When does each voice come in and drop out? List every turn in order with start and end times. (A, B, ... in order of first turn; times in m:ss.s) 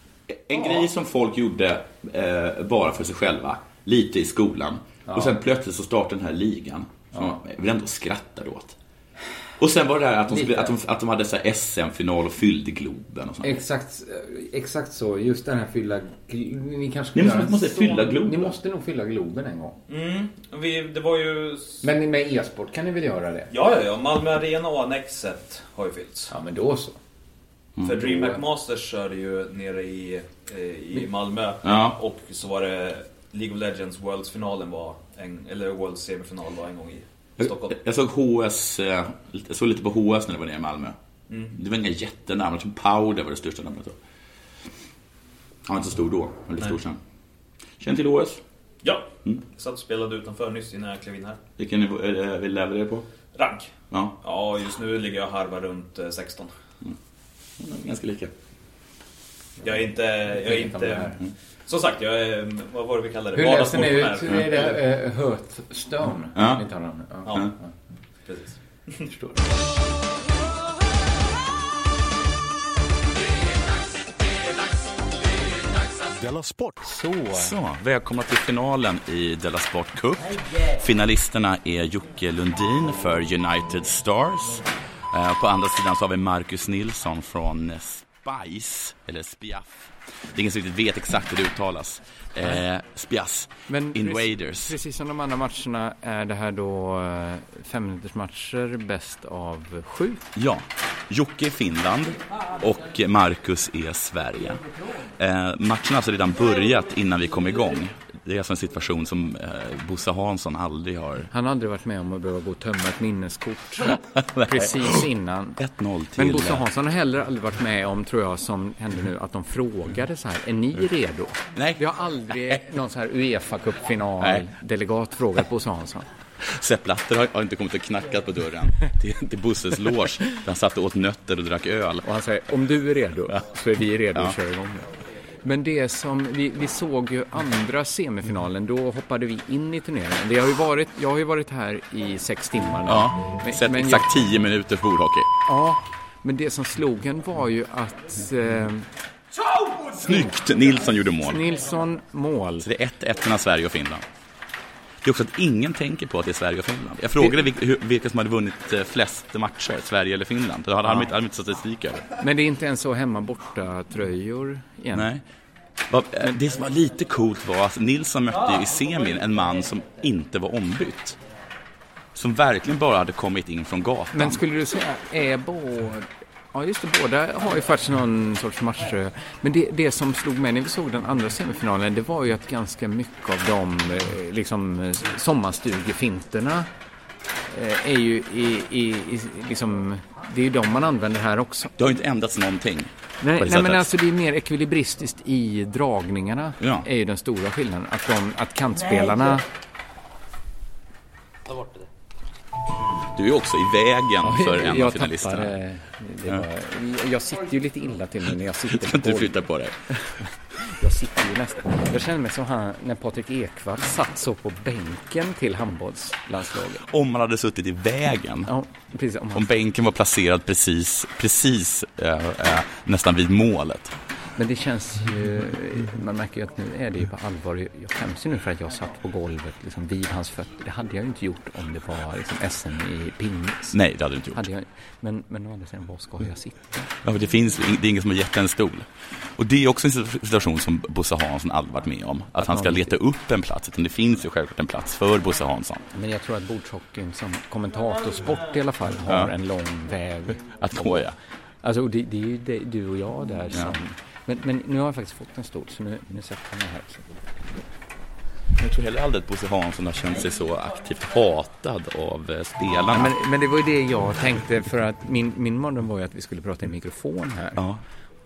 0:00.3-0:08.8 A
0:05.1-0:05.4 B
0:09.6-0:13.6 A
0:10.3-0:10.7 B
0:13.4-0:19.8 B
0:17.1-0:18.6 A
0:19.9-0:21.8 C
0:21.8-0:23.5 B
0:23.5-0:26.3 C
0:26.3-0:27.0 B
0:27.8-0:37.8 C
0:28.0-0:28.4 B
0:31.6-0:32.0 A
0:37.4-0:41.0 A
0:41.3-0:41.6 C
0:41.5-0:44.0 A
0:45.6-0:47.0 A
0:47.8-0:48.4 A
0:48.8-0:51.4 C
0:51.6-0:53.0 A
0:53.4-0:56.5 C
0:57.6-0:58.3 A
0:59.6-1:04.8 C
1:00.4-1:01.2 B
1:03.3-1:07.7 B
1:06.3-1:06.6 A
1:08.2-1:09.1 C
1:16.8-1:17.5 B
1:17.3-1:34.8 A
1:33.7-1:40.3 B
1:40.4-1:44.6 A
1:45.2-1:51.3 A
1:51.3-1:55.6 B
1:53.8-1:55.0 A
1:55.6-1:56.6 A
1:56.2-2:06.1 B
2:01.5-2:02.6 A
2:04.2-2:04.4 A
2:06.4-2:12.0 A
2:12.0-2:14.9 B
2:15.4-2:24.1 B
2:22.8-2:25.3 A
2:25.4-2:28.9 B
2:29.9-2:31.4 A
2:31.2-2:32.7 B
2:32.6-2:34.0 A
2:35.0-2:42.0 A
2:42.2-2:45.1 B
2:44.9-2:45.2 A
2:45.9-2:51.2 A
2:52.1-2:54.4 A
2:54.1-3:06.7 B
3:07.5-3:11.7 B
3:11.8-3:13.9 A
3:13.2-3:19.4 B
3:16.6-3:16.8 A
3:23.1-3:25.5 A
3:24.2-3:29.4 B
3:28.7-3:29.8 A
3:30.1-3:36.8 B
3:36.8-3:38.5 A
3:38.5-3:39.5 B
3:39.3-3:43.9 A
3:44.4-3:53.8 B
3:53.7-3:54.4 A
3:54.3-3:56.9 B
3:57.0-4:05.8 A
4:02.4-4:02.9 B
4:05.9-4:11.0 B
4:09.0-4:09.3 A
4:10.6-4:11.2 A
4:11.6-4:17.4 B
4:18.6-4:23.2 A
4:22.9-4:27.6 B